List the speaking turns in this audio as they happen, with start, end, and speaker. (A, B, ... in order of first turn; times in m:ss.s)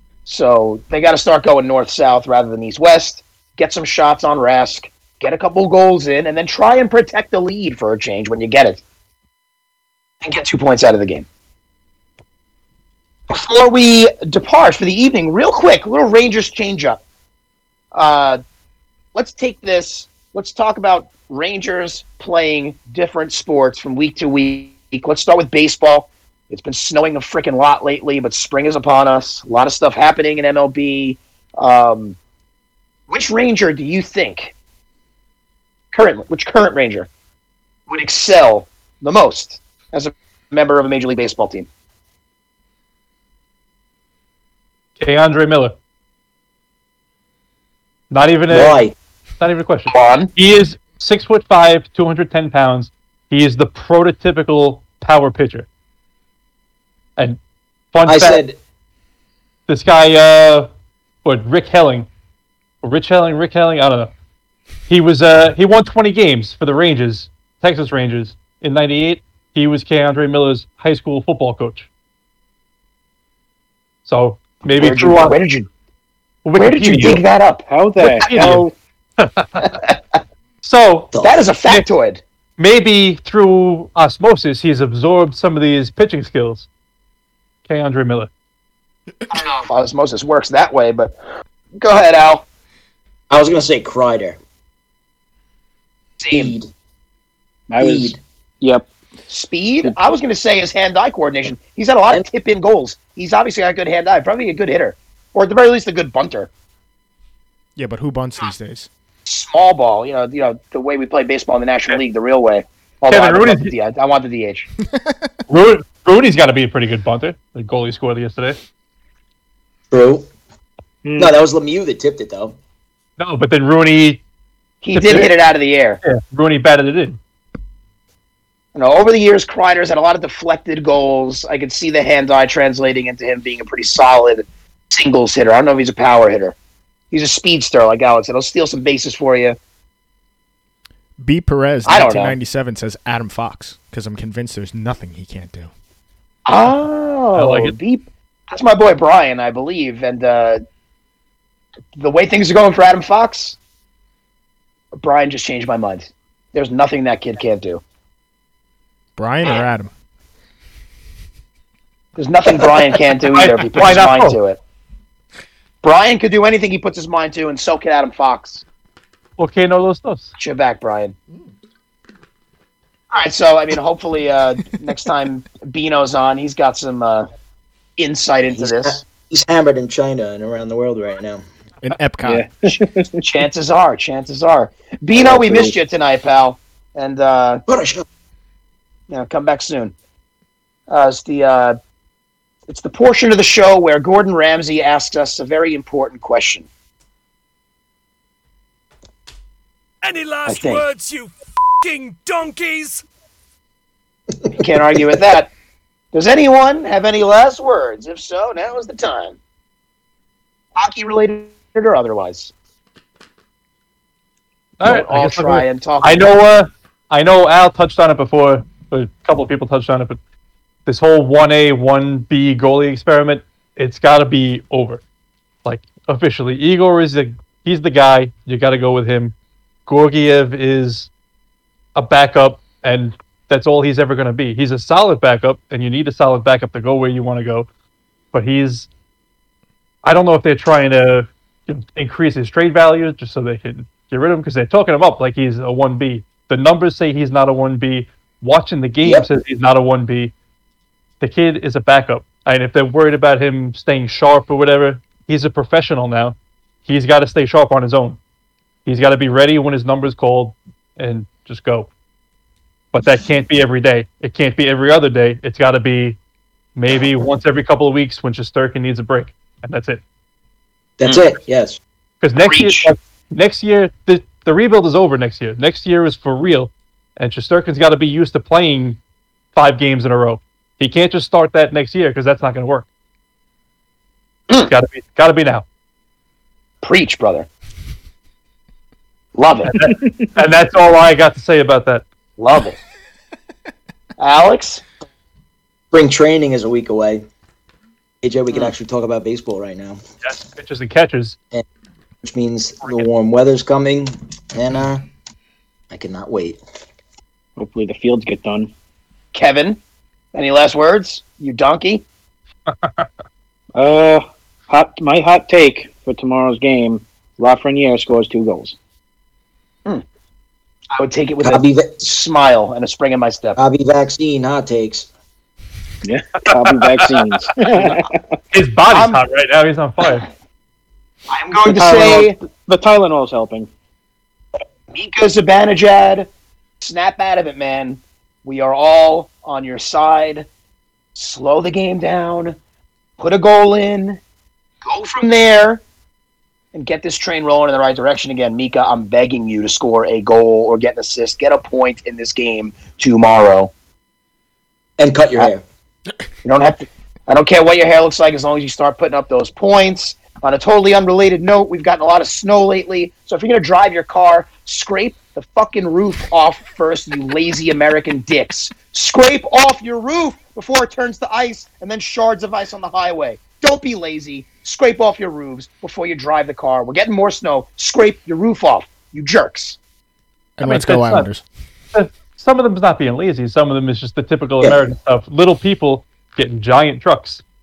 0:00.2-0:08.8 A
0:10.2-0:11.3 A
0:13.3-0:17.0 A
0:17.9-0:18.4 A
0:19.1-0:32.2 A
0:33.1-0:34.5 A
0:35.9-0:37.1 A
0:37.9-0:41.7 A
0:45.0-0:45.8 B
0:48.1-0:48.8 B
0:48.5-0:48.9 C
0:49.4-0:55.7 B
0:49.9-0:50.3 A
0:57.9-0:58.4 B
0:58.0-0:58.6 C
0:59.7-1:00.7 B
1:01.2-1:02.1 B
1:02.8-1:04.1 B
1:04.9-1:11.9 B
1:14.0-1:15.4 B
1:14.8-1:15.7 A
1:16.4-1:17.2 B
1:16.6-1:17.6 A
1:17.7-1:18.7 D
1:18.0-1:18.7 B
1:19.2-1:19.7 B
1:19.6-1:19.9 A
1:20.6-1:21.8 B
1:21.1-1:21.4 C
1:21.2-1:22.2 A
1:22.6-1:26.7 B
1:27.6-1:28.3 B
1:29.3-1:31.1 A
1:31.8-1:32.4 A
1:33.3-1:34.4 C
1:36.2-1:36.5 A
1:36.3-1:36.7 C
1:37.7-1:38.9 D
1:37.8-1:38.2 C
1:39.3-1:46.5 A
1:47.8-1:48.9 E
1:49.2-1:54.7 A
1:53.1-1:53.7 B
1:55.5-1:58.6 B
1:59.9-2:00.3 C
2:01.0-2:01.3 D
2:01.2-2:02.6 C
2:03.2-2:04.2 B
2:04.8-2:06.0 A
2:04.9-2:05.3 B
2:06.0-2:07.2 B
2:08.7-2:16.6 A
2:17.1-2:19.6 A
2:21.2-2:25.7 E
2:21.8-2:22.4 A
2:26.5-2:30.6 A
2:27.4-2:27.8 B
2:32.0-2:33.6 A
2:35.0-2:37.8 A
2:39.2-2:39.9 E
2:42.2-2:44.6 A
2:43.3-2:44.4 B
2:45.8-2:48.6 A
2:49.4-2:50.3 B
2:50.4-2:51.1 A
2:53.1-2:57.3 A
2:58.0-2:59.0 A
2:58.5-3:01.4 C
3:01.8-3:02.5 E
3:02.2-3:03.2 D
3:03.2-3:07.6 A
3:05.2-3:05.7 D
3:07.7-3:08.0 C
3:09.1-3:09.9 A
3:10.9-3:11.8 A
3:12.7-3:16.7 A
3:20.0-3:23.0 F
3:20.4-3:20.8 A
3:24.5-3:25.5 A
3:26.1-3:29.4 A
3:30.8-3:32.5 A
3:34.8-3:40.2 B
3:34.8-3:36.3 A
3:40.8-3:45.0 B
3:45.6-3:49.3 B
3:49.8-3:51.1 B
3:52.0-3:57.7 B
3:58.3-3:58.9 B
4:00.0-4:10.3 B
4:09.0-4:09.3 C
4:11.2-4:18.2 B
4:18.8-4:21.9 B
4:22.9-4:26.2 B
4:26.8-4:30.0 B
4:31.0-4:31.8 C
4:32.2-4:39.0 B
4:32.4-4:32.9 A
4:39.5-4:42.9 B
4:44.7-4:45.6 B
4:46.8-4:47.5 A
4:49.4-4:49.7 A
4:49.7-4:52.0 B
4:52.4-4:52.8 A
4:54.2-4:54.8 A
4:55.9-4:57.2 C
4:58.2-5:00.0 C
5:00.2-5:01.4 B
5:02.2-5:05.0 C
5:05.9-5:06.6 C
5:07.6-5:08.7 D
5:09.3-5:09.8 A
5:10.3-5:12.0 A
5:12.7-5:13.1 B
5:13.8-5:18.8 D
5:20.9-5:23.6 A
5:21.4-5:22.0 C
5:23.6-5:25.1 C
5:26.0-5:28.4 D
5:26.4-5:27.4 B
5:28.5-5:30.3 B
5:28.9-5:29.2 A
5:31.3-5:32.4 A
5:31.8-5:33.7 D
5:34.9-5:36.3 A
5:36.8-5:40.5 A
5:41.1-5:42.6 A
5:43.2-5:44.2 A
5:44.8-5:45.8 A
5:46.7-5:53.7 A
5:55.0-5:55.6 C
5:56.4-6:19.8 A
6:20.6-6:21.4 E
6:20.6-6:21.3 B
6:21.9-6:27.4 B
6:24.6-6:24.9 C